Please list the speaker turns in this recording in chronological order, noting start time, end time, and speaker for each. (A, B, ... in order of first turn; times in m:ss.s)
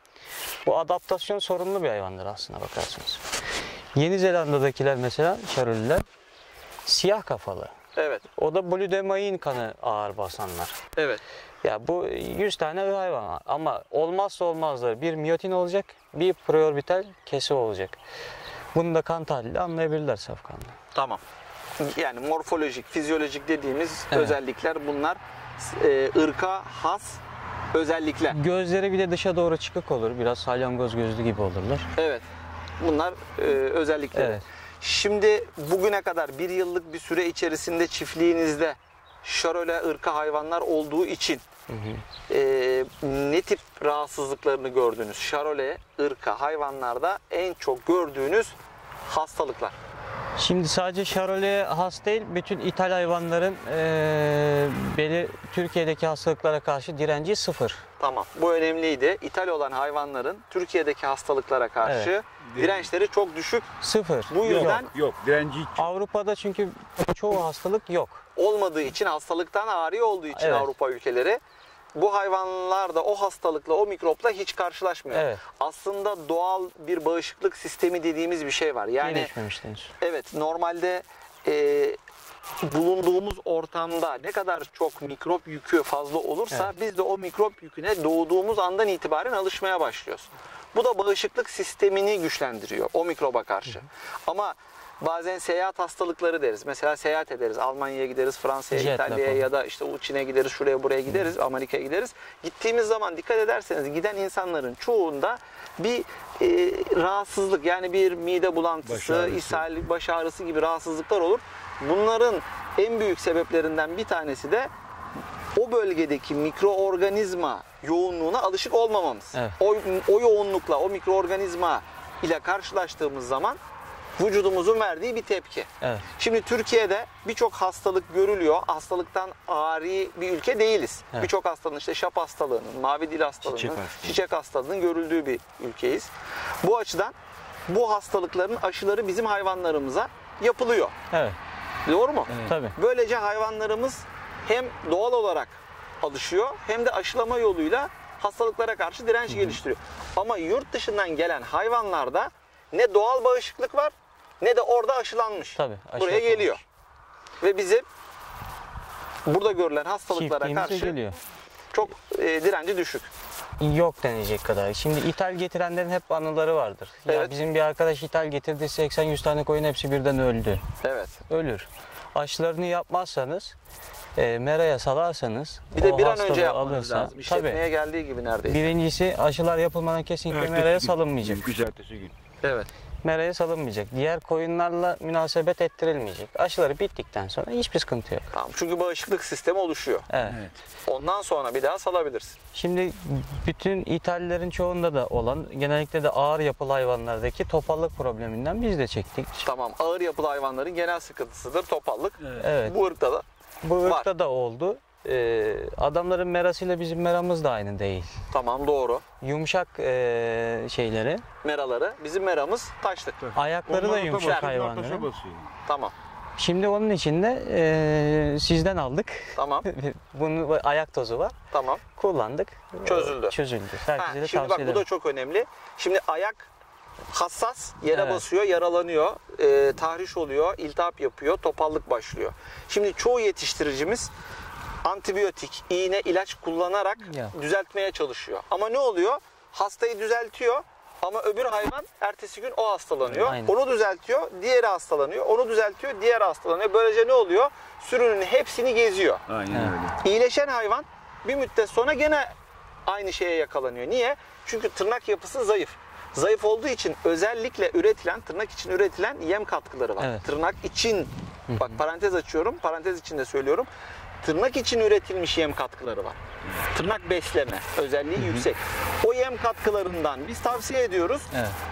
0:00.6-0:03.2 A
0:04.0-0:06.0 A
0:06.9-0:07.7 A
0:08.0-0:08.3 B
0:08.4-0:10.8 A
0:11.0-0:11.2 B
0:11.6-0:18.0 A
0:18.7-0:20.8 A
0:20.9-0:21.2 B
0:21.8-0:27.2 B
0:24.1-0:24.4 A
0:27.7-0:28.4 B
0:28.3-0:31.9 A
0:32.0-0:32.3 B
0:32.8-0:41.4 B
0:34.1-0:34.4 A
0:41.7-0:42.0 A
0:42.3-0:49.8 B
0:50.4-0:57.8 A
0:58.0-1:03.7 B
1:01.8-1:02.1 A
1:02.4-1:02.9 C
1:03.8-1:04.9 A
1:04.3-1:04.9 B
1:04.4-1:05.9 C
1:05.8-1:08.2 A
1:08.4-1:11.4 B
1:10.3-1:10.7 A
1:12.0-1:19.3 B
1:15.1-1:15.4 A
1:19.0-1:19.9 A
1:20.0-1:22.0 B
1:22.6-1:54.7 B
1:38.7-1:39.4 A
1:48.8-1:49.6 C
1:55.6-2:03.6 B
2:04.2-2:16.1 B
2:05.8-2:06.1 A
2:13.4-2:14.2 C
2:16.6-2:17.2 B
2:17.7-2:21.0 B
2:21.1-2:21.4 A
2:21.9-2:36.6 B
2:22.3-2:22.6 C
2:22.4-2:22.8 A
2:29.3-2:29.6 A
2:35.6-2:36.6 A
2:37.4-2:37.9 B
2:39.3-2:41.0 B
2:40.1-2:41.2 A
2:41.7-2:43.1 B
2:43.6-2:50.6 A
2:47.1-2:47.4 B
2:50.8-2:51.2 B
2:51.3-2:53.6 A
2:54.2-2:57.6 A
2:55.7-2:58.7 B
2:58.5-3:01.4 A
3:00.3-3:02.1 C
3:02.4-3:02.7 B
3:03.0-3:08.3 A
3:08.3-3:10.1 B
3:10.1-3:10.4 A
3:10.2-3:10.6 C
3:10.8-3:12.4 B
3:12.5-3:19.4 A
3:19.4-3:23.2 B
3:22.4-3:22.8 A
3:23.6-3:28.1 A
3:23.8-3:24.1 B
3:28.3-3:29.0 B
3:29.2-3:31.2 A
3:31.4-3:33.4 B
3:33.4-3:35.1 A
3:33.6-3:35.5 C
3:34.2-3:34.5 B
3:35.7-3:35.9 B
3:36.4-3:41.4 A
3:39.4-3:39.7 B
3:41.5-3:41.8 B
3:42.0-3:44.8 A
3:42.8-3:43.4 B
3:43.9-3:46.5 B
3:47.1-3:54.1 B
3:47.9-3:48.2 A
3:54.8-4:09.2 B
3:57.0-3:57.4 A
4:03.2-4:03.5 A
4:09.3-4:10.0 C
4:10.0-4:12.3 B
4:12.9-4:23.7 B
4:20.0-4:20.3 A
4:21.5-4:21.8 A
4:24.2-4:26.2 B
4:26.7-4:31.3 B
4:28.2-4:28.5 A
4:31.3-4:31.6 A